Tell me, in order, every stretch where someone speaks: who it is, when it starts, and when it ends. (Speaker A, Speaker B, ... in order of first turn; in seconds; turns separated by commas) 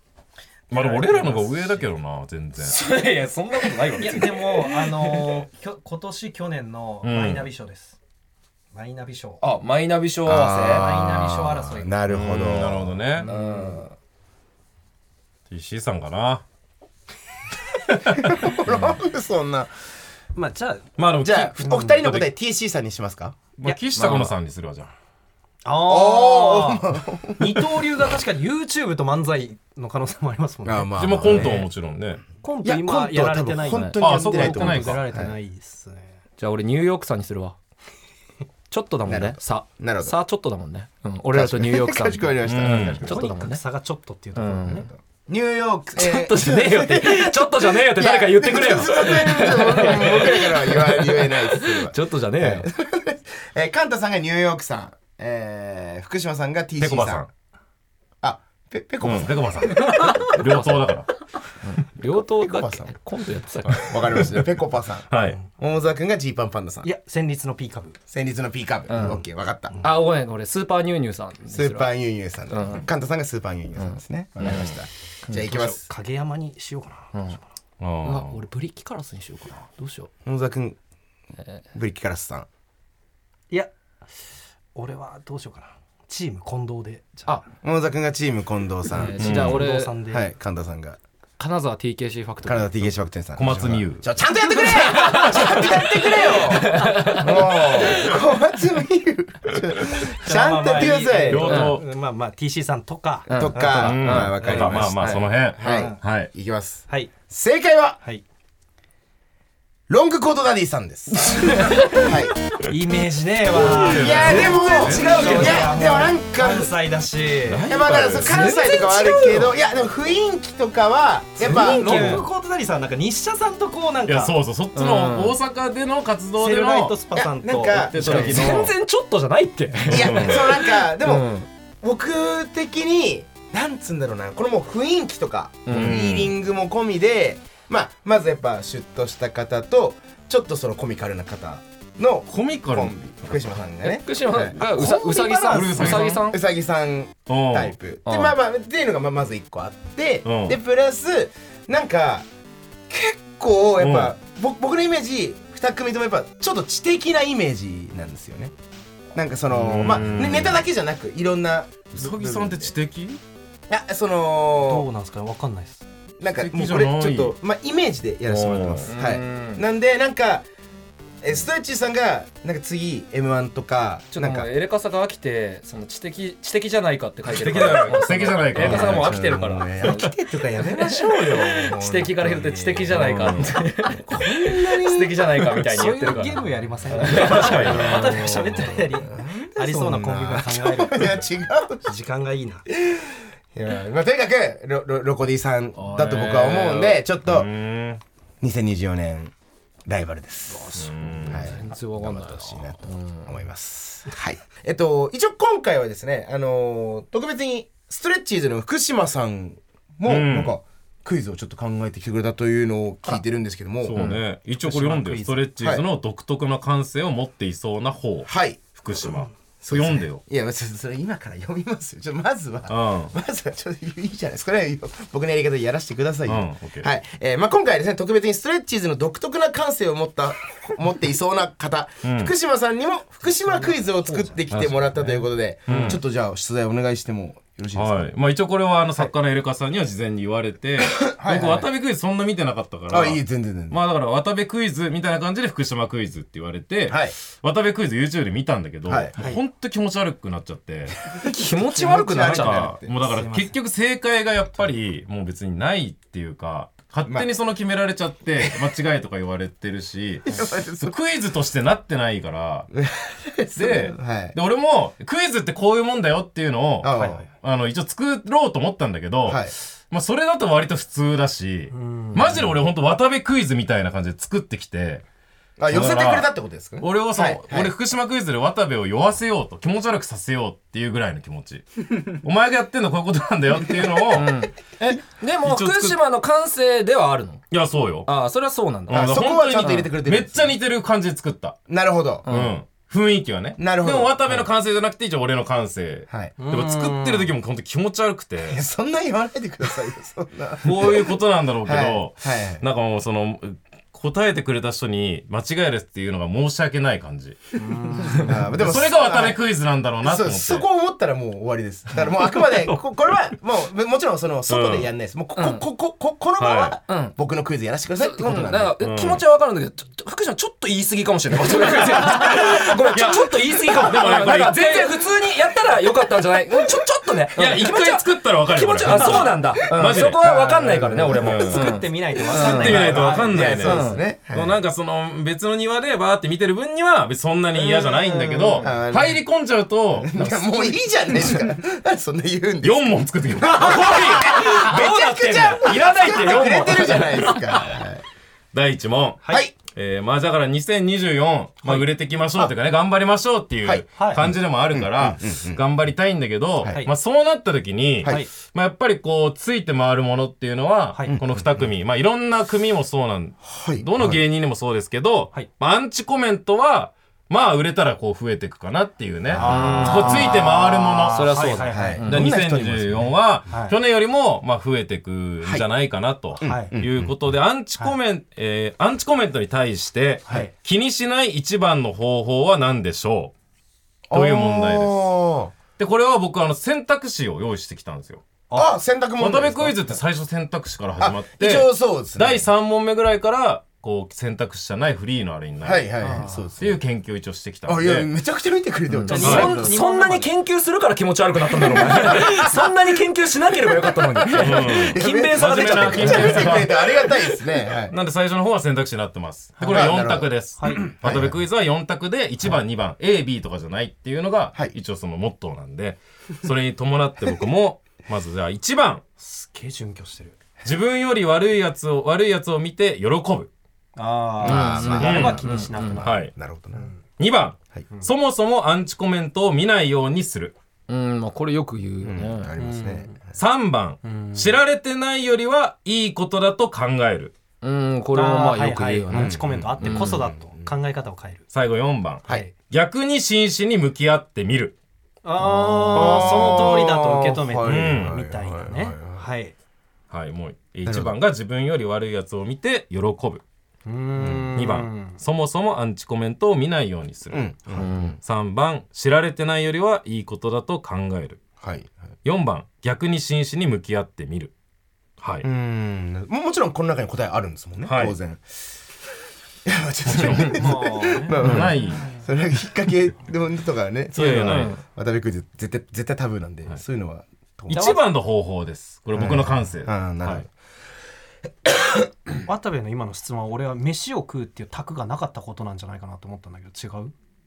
Speaker A: 0.7-1.9, Speaker B: 0.7-2.8, Speaker C: 2.6-5.4, Speaker A: 4.0-8.0, Speaker B: 7.0-7.5, Speaker A: 8.7-9.4, Speaker C: 9.4-10.9, Speaker D: 10.2-13.3, Speaker A: 10.6-11.9, Speaker B: 12.1-13.3, Speaker A: 13.2-13.8, Speaker C: 13.2-13.9, Speaker B: 15.5-16.4, Speaker D: 18.1-19.7, Speaker B: 18.7-18.9, Speaker A: 20.3-20.9, Speaker B: 21.0-22.3, Speaker D: 21.2-23.4, Speaker A: 21.6-22.0, Speaker B: 23.6-24.9, Speaker A: 23.6-24.2, Speaker C: 23.9-24.3, Speaker A: 25.6-31.4, Speaker D: 25.8-27.9, Speaker D: 30.6-31.7, Speaker B: 31.0-32.2, Speaker A: 32.4-36.1, Speaker D: 32.6-35.3, Speaker C: 33.7-33.9, Speaker B: 34.0-35.0, Speaker C: 36.4-37.5, Speaker C: 38.7-43.6, Speaker D: 39.1-40.1, Speaker D: 41.3-43.4, Speaker B: 42.4-43.0, Speaker A: 43.0-45.0, Speaker C: 44.4-44.9, Speaker D: 44.7-57.2, Speaker C: 45.9-52.7, Speaker B: 56.8-57.3, Speaker D: 58.2-60.1, Speaker B: 59.0-61.1, Speaker C: 59.7-60.9, Speaker C: 61.6-64.2, Speaker D: 62.4-62.9, Speaker D: 63.7-66.9, Speaker B: 65.1-65.4, Speaker A: 66.8-68.0, Speaker D: 68.1-69.8, Speaker C: 68.9-69.2, Speaker C: 69.8-71.9, Speaker D: 71.5-75.8, Speaker C: 72.5-72.8, Speaker C: 73.8-74.8, Speaker A: 75.4-77.4, Speaker B: 77.8-78.4, Speaker C: 78.0-80.1, Speaker D: 80.2-80.8, Speaker D: 81.7-82.5, Speaker A: 84.7-87.4, Speaker D: 87.6-89.5, Speaker C: 88.9-89.9, Speaker B: 89.2-89.6, Speaker A: 89.2-90.3, Speaker D: 90.1-91.0, Speaker C: 91.4-93.0, Speaker D: 92.5-101.6, Speaker B: 93.3-94.1, Speaker C: 94.5-98.1, Speaker A: 100.2-106.0, Speaker B: 101.2-101.8, Speaker C: 101.4-101.8, Speaker C: 103.3-104.3, Speaker D: 103.3-105.0, Speaker B: 103.8-106.3, Speaker D: 105.5-108.0, Speaker D: 109.9-112.3, Speaker C: 111.3-112.1, Speaker A: 112.7-117.7, Speaker B: 113.5-115.7, Speaker D: 113.7-116.7, Speaker C: 114.0-115.6, Speaker B: 117.5-118.6, Speaker D: 117.7-122.2, Speaker C: 118.2-119.5, Speaker B: 119.2-119.5, Speaker A: 121.4-124.3, Speaker C: 121.4-122.2, Speaker B: 124.0-127.0, Speaker C: 124.7-125.4, Speaker A: 126.4-128.6, Speaker D: 127.1-128.5, Speaker B: 127.7-128.7, Speaker C: 128.0-131.5, Speaker B: 129.9-130.4, Speaker D: 129.9-152.3, Speaker C: 135.7-136.1, Speaker B: 135.7-136.3, Speaker B: 142.3-143.3, Speaker C: 143.8-146.4, Speaker B: 144.8-146.2, Speaker A: 145.1-145.9, Speaker B: 147.3-147.7, Speaker C: 148.1-148.3, Speaker B: 150.2-150.6, Speaker D: 152.9-158.5, Speaker B: 153.8-154.1, Speaker D: 159.1-162.7, Speaker B: 159.5-160.6, Speaker B: 162.0-163.2, Speaker D: 163.7-164.9, Speaker A: 164.6-165.8, Speaker D: 166.2-170.4, Speaker B: 166.4-167.3, Speaker B: 168.2-168.9, Speaker C: 168.9-169.6, Speaker D: 171.2-174.5, Speaker C: 174.1-180.1, Speaker B: 177.2-179.2, Speaker D: 178.5-185.2, Speaker C: 180.8-186.4, Speaker B: 182.9-183.5, Speaker A: 185.7-191.2, Speaker C: 187.0-188.1, Speaker B: 187.1-188.5, Speaker D: 187.6-191.9, Speaker A: 191.8-192.7, Speaker D: 192.7-197.5, Speaker B: 195.8-198.0, Speaker D: 198.4-199.3, Speaker D: 199.8-214.1, Speaker C: 200.5-203.3, Speaker B: 200.7-201.5, Speaker B: 210.1-210.5, Speaker B: 213.8-220.2, Speaker A: 214.6-215.4, Speaker D: 215.2-215.8, Speaker D: 218.2-218.6, Speaker D: 219.6-238.1, Speaker B: 222.7-223.1, Speaker B: 226.2-226.9, Speaker B: 232.0-232.3, Speaker A: 233.4-234.4, Speaker B: 234.5-234.8, Speaker A: 234.9-235.9, Speaker B: 235.7-236.0, Speaker B: 237.7-251.0, Speaker D: 241.0-241.7, Speaker D: 242.9-243.8, Speaker D: 246.9-247.1, Speaker D: 248.8-249.2, Speaker D: 251.0-253.2, Speaker C: 251.2-252.7, Speaker B: 252.2-262.7, Speaker A: 253.1-253.5, Speaker D: 257.0-257.3, Speaker D: 260.3-260.9, Speaker D: 262.7-264.4, Speaker B: 263.5-275.0, Speaker D: 266.8-267.2, Speaker A: 266.9-267.2, Speaker D: 269.2-269.5, Speaker A: 271.7-272.5, Speaker D: 275.6-277.7, Speaker B: 275.7-276.3, Speaker B: 276.8-284.3, Speaker C: 284.1-287.5, Speaker B: 284.8-286.0, Speaker B: 287.5-288.1, Speaker C: 288.0-289.9, Speaker B: 288.9-291.6, Speaker D: 288.9-290.6, Speaker D: 291.7-292.4, Speaker C: 292.2-292.5, Speaker B: 292.3-298.6, Speaker D: 293.6-294.4, Speaker D: 296.1-296.3, Speaker A: 296.4-297.3, Speaker D: 298.4-302.6, Speaker B: 300.6-307.4, Speaker A: 307.6-308.4, Speaker D: 308.1-309.4, Speaker B: 308.3-310.6, Speaker D: 310.0-318.8, Speaker B: 314.5-314.9, Speaker C: 315.4-315.6, Speaker B: 316.4-316.7, Speaker C: 316.9-317.1, Speaker C: 317.9-333.0, Speaker B: 318.8-319.2, Speaker B: 322.9-324.7, Speaker B: 327.4-331.8, Speaker A: 328.9-329.2, Speaker D: 329.8-331.5, Speaker A: 331.5-333.6, Speaker D: 332.3-334.6, Speaker B: 332.3-340.8, Speaker C: 333.6-334.0, Speaker C: 338.2-338.4, Speaker A: 338.2-338.6, Speaker D: 338.5-339.2, Speaker D: 339.9-348.0, Speaker B: 342.6-343.7, Speaker C: 343.5-347.5, Speaker A: 345.7-346.8, Speaker B: 348.5-371.4, Speaker A: 349.2-349.5, Speaker D: 349.3-349.5, Speaker D: 353.6-355.6, Speaker A: 353.9-354.2, Speaker D: 356.6-356.8, Speaker A: 356.7-356.9, Speaker A: 360.9-361.2, Speaker D: 361.1-361.7, Speaker D: 363.4-364.2, Speaker D: 369.3-373.2, Speaker A: 369.3-370.4, Speaker C: 369.4-372.3, Speaker A: 371.1-372.0, Speaker B: 372.1-383.3, Speaker A: 373.5-373.8, Speaker D: 376.4-377.1, Speaker A: 376.4-376.7, Speaker A: 380.2-380.5, Speaker D: 384.1-385.5, Speaker B: 384.1-385.1, Speaker B: 385.8-388.2, Speaker D: 388.5-389.9, Speaker B: 389.2-395.9, Speaker D: 391.0-392.4, Speaker D: 395.6-396.8, Speaker A: 396.0-396.4, Speaker B: 396.6-398.1, Speaker D: 397.6-399.8, Speaker C: 398.9-407.2, Speaker A: 399.1-400.3, Speaker B: 399.2-399.4, Speaker D: 401.5-402.7, Speaker D: 403.8-407.9, Speaker B: 404.3-406.7, Speaker B: 407.9-419.0, Speaker A: 409.6-409.9, Speaker D: 409.6-411.4, Speaker A: 410.6-410.9, Speaker A: 419.2-420.4, Speaker B: 420.6-423.5, Speaker A: 423.9-427.0, Speaker D: 424.4-426.9, Speaker C: 424.4-426.0, Speaker B: 424.9-425.4, Speaker B: 426.0-426.3, Speaker B: 427.2-430.5, Speaker C: 430.9-432.5, Speaker D: 432.0-433.4, Speaker A: 432.6-433.2, Speaker B: 433.4-437.3, Speaker A: 434.0-434.6, Speaker C: 437.6-440.2, Speaker A: 438.1-441.4, Speaker D: 439.1-440.7, Speaker B: 441.5-444.8, Speaker A: 442.2-442.5, Speaker A: 445.2-449.5, Speaker D: 445.9-449.3, Speaker B: 445.9-446.6, Speaker B: 447.6-448.2, Speaker B: 450.1-453.4, Speaker D: 450.9-451.2, Speaker A: 453.9-455.2, Speaker D: 454.2-454.5, Speaker B: 454.5-461.4, Speaker D: 457.3-458.2, Speaker C: 457.7-458.2, Speaker D: 461.6-461.9, Speaker B: 462.2-464.5, Speaker B: 465.2-465.4, Speaker D: 465.4-468.4, Speaker B: 467.8-468.1, Speaker D: 469.6-477.9, Speaker B: 470.1-470.6, Speaker A: 470.2-471.4, Speaker B: 471.4-472.1, Speaker B: 474.1-474.8, Speaker C: 474.3-474.8, Speaker B: 477.7-480.4, Speaker D: 479.1-480.5, Speaker D: 481.6-482.1, Speaker A: 482.4-487.1